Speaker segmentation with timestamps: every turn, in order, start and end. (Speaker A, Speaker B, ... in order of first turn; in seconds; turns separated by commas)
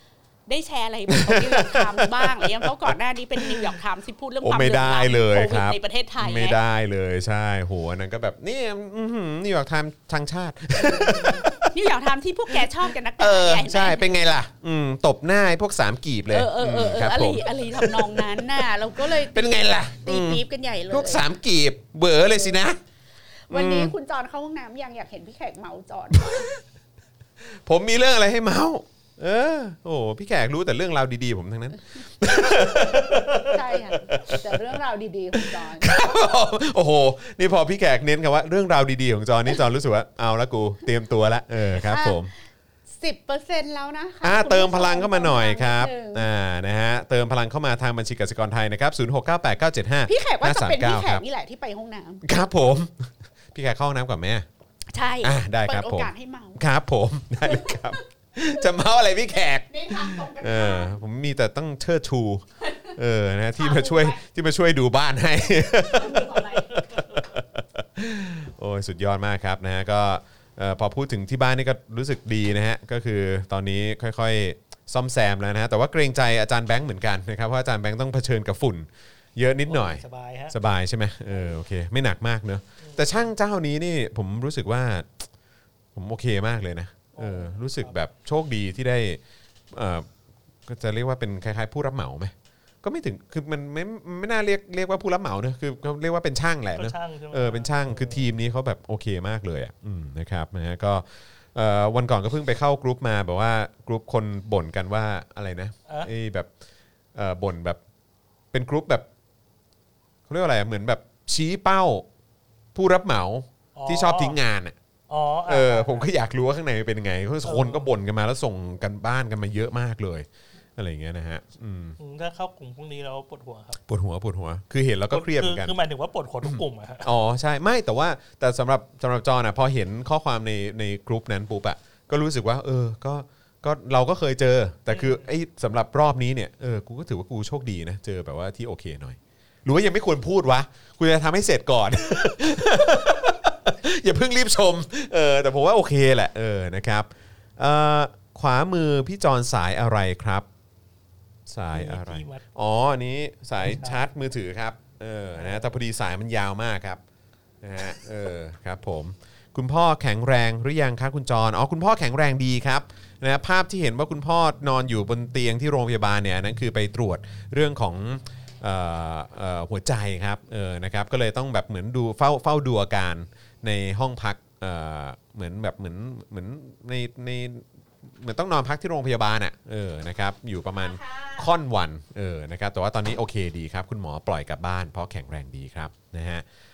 Speaker A: 0.5-6.6, Speaker B: 1.1-3.8, Speaker B: 4.4-11.7, Speaker A: 10.7-14.3, Speaker B: 12.5-22.8, Speaker A: 16.3-21.2, Speaker A: 23.5-26.5, Speaker B: 23.5-23.9, Speaker B: 26.1-26.6, Speaker B: 27.5-34.8, Speaker A: 32.3-36.1, Speaker B: 35.3-42.3, Speaker A: 41.7-42.3, Speaker A: 43.0-46.3, Speaker B: 44.2-51.2, Speaker A: 50.0-52.2, Speaker B: 52.2-54.5, Speaker A: 54.9-56.6, Speaker B: 55.2-85.2, Speaker A: 57.4-58.0, Speaker A: 59.6-61.0, Speaker A: 62.6-62.9, Speaker A: 63.6-64.2, Speaker A: 65.8-66.8, Speaker C: 79.7-80.5, Speaker C: 82.8-83.1, Speaker B: 85.9-89.2, Speaker C: 87.2-88.0, Speaker B: 89.7-90.1, Speaker B: 90.7-106.5, Speaker C: 96.7-98.2, Speaker B: 107.1-107.8, Speaker B: 108.5-109.0, Speaker B: 110.3-112.1, Speaker B: 112.7-114.8, Speaker C: 113.8-114.4, Speaker C: 115.1-116.1, Speaker B: 115.5-122.0, Speaker C: 117.4-117.9, Speaker C: 122.0-123.8, Speaker B: 123.8-125.7, Speaker C: 125.1-127.1, Speaker B: 126.4-150.5, Speaker C: 134.9-135.2, Speaker B: 151.5-157.0, Speaker C: 151.7-152.4, Speaker C: 153.6-154.0, Speaker B: 157.6-186.4, Speaker A: 180.8-181.5